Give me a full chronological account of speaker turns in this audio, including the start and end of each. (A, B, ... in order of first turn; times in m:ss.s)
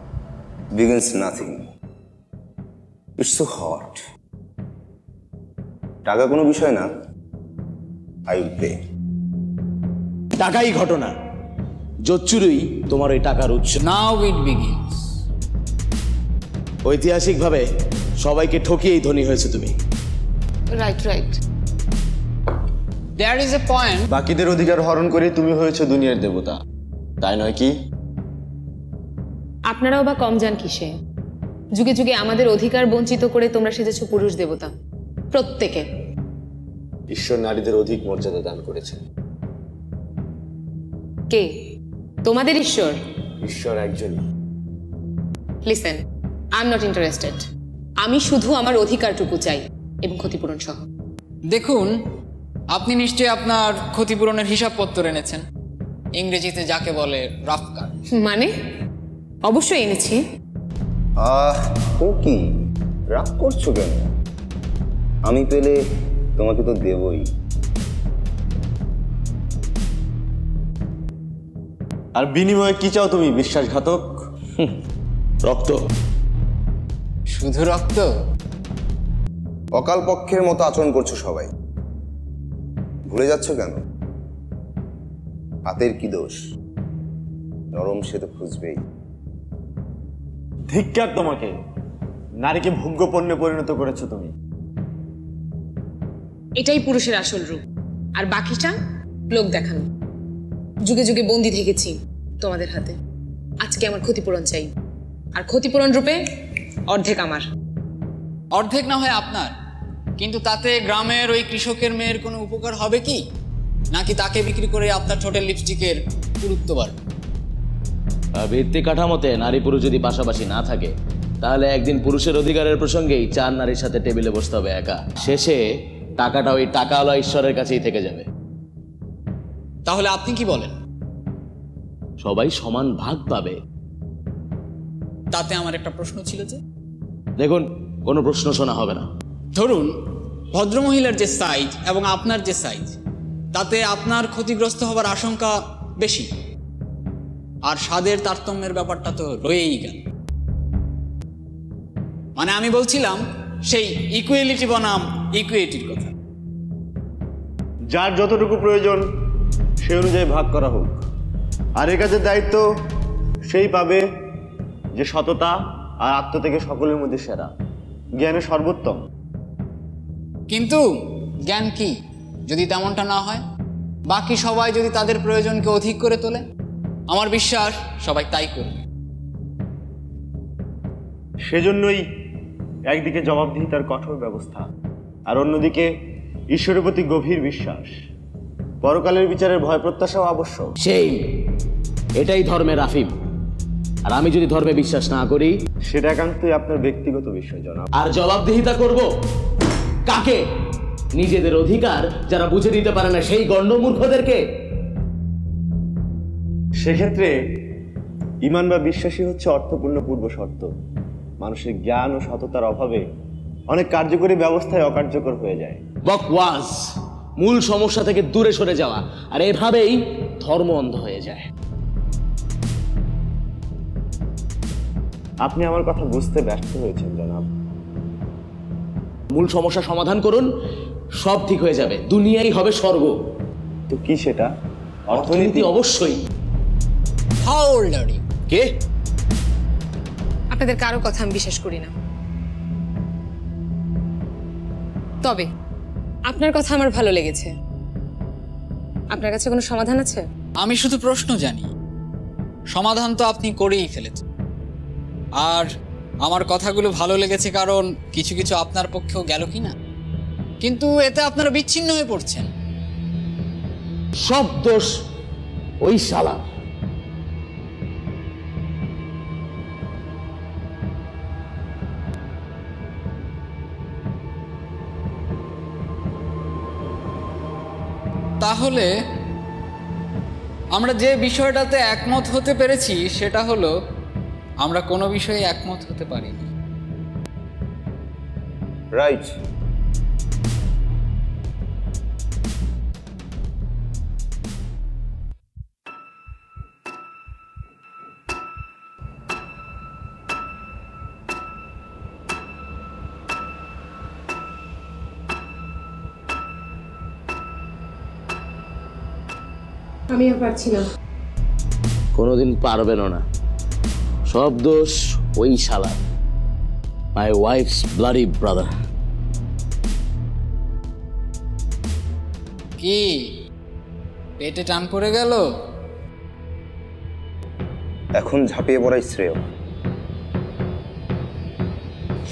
0:00.7-0:01.6 A
0:03.2-0:04.0 A
0:06.0-0:06.9 A
0:08.3-0:08.8 A
0:10.4-0:11.1 B
0:12.0-0:13.8 B
0:13.8-0:15.0 C
0:16.8-0:17.6 B
0:18.2-0:19.7 B
0:20.7-0:21.4 D
0:23.2-0:24.1 C
0:24.1-0:26.6 E
0:27.2-0:27.7 E
0:29.7-0:30.9 D
0:31.7-0:34.7 D
0:35.3-0:35.8 D
0:37.1-0:39.0 E
0:42.2-0:43.0 D
0:43.4-0:44.2 E
0:45.6-0:46.0 D
0:46.6-0:47.4 D
0:48.0-0:50.8 D
0:51.5-0:52.0 C
0:52.7-0:55.4 C
0:56.2-0:57.9 C
0:58.1-0:58.5 D
0:59.4-1:00.2 D
1:01.2-1:02.5 A
1:03.1-1:04.1 A
1:05.2-1:05.8 A
1:06.4-1:07.3 A
1:12.1-1:14.2 E
1:15.4-1:15.8 B
1:17.3-1:18.1 C
1:19.7-1:21.5 A
1:23.1-1:23.8 A
1:25.6-1:26.4 A
1:27.7-1:28.8 A
1:30.7-1:31.5 E
1:32.4-1:34.3 E
1:36.6-1:37.6 D
1:38.2-1:38.7 D
1:39.3-1:39.9 D
1:40.8-1:43.0 D
1:43.6-1:44.7 D
1:45.3-1:46.2 D
1:46.9-1:47.4 D
1:48.5-1:49.5 C
1:50.2-1:53.2 C
1:53.9-1:57.0 C
1:58.4-2:05.6 B
2:06.2-2:08.2 B
2:09.8-2:10.8 C
2:12.2-2:13.6 B
2:15.3-2:16.6 C
2:17.4-2:19.1 B
2:19.5-2:23.0 C
2:23.5-2:26.3 C
2:27.6-2:30.0 C
2:32.4-2:36.1 C
2:37.9-2:39.0 E
2:39.8-2:41.0 E
2:41.8-2:42.6 E
2:43.4-2:44.0 E
2:45.0-2:47.5 E
2:48.2-2:49.0 E
2:50.5-2:53.4 C
2:54.1-2:56.4 C
2:57.1-2:58.8 C
3:01.5-3:02.0 E
3:02.9-3:04.6 E
3:05.3-3:05.9 E
3:06.5-3:07.9 E
3:08.8-3:10.7 E
3:10.8-3:11.4 B
3:12.2-3:13.1 B
3:14.0-3:15.6 B
3:15.8-3:17.9 E
3:18.0-3:19.0 B
3:20.0-3:20.4 B
3:21.1-3:24.4 B
3:26.8-3:27.4 E
3:28.4-3:30.7 E
3:31.4-3:33.0 E
3:33.7-3:35.8 E
3:36.0-3:41.5 B
3:45.4-3:47.4 E
3:49.3-3:50.5 B
3:51.2-3:53.1 B
3:53.9-3:54.5 E
3:55.1-3:55.7 E
3:55.1-3:56.2 B
3:57.4-3:58.2 C
4:00.5-4:01.9 D
4:05.2-4:05.5 D
4:06.3-4:07.5 D
4:09.1-4:10.2 D
4:10.6-4:11.7 C
4:12.7-4:14.2 C
4:15.4-4:15.7 C
4:16.2-4:19.7 C
4:20.6-4:22.5 C
4:24.2-4:24.9 B
4:25.8-4:26.4 B
4:38.4-4:38.9 C
4:40.7-4:43.7 C
4:44.6-4:46.5 C
4:48.9-4:49.3 A
5:10.1-5:10.9 D
5:12.1-5:13.2 B
5:14.3-5:16.0 B
5:17.2-5:18.7 B
5:22.8-5:23.4 C
5:24.4-5:25.5 C
5:28.2-5:29.4 A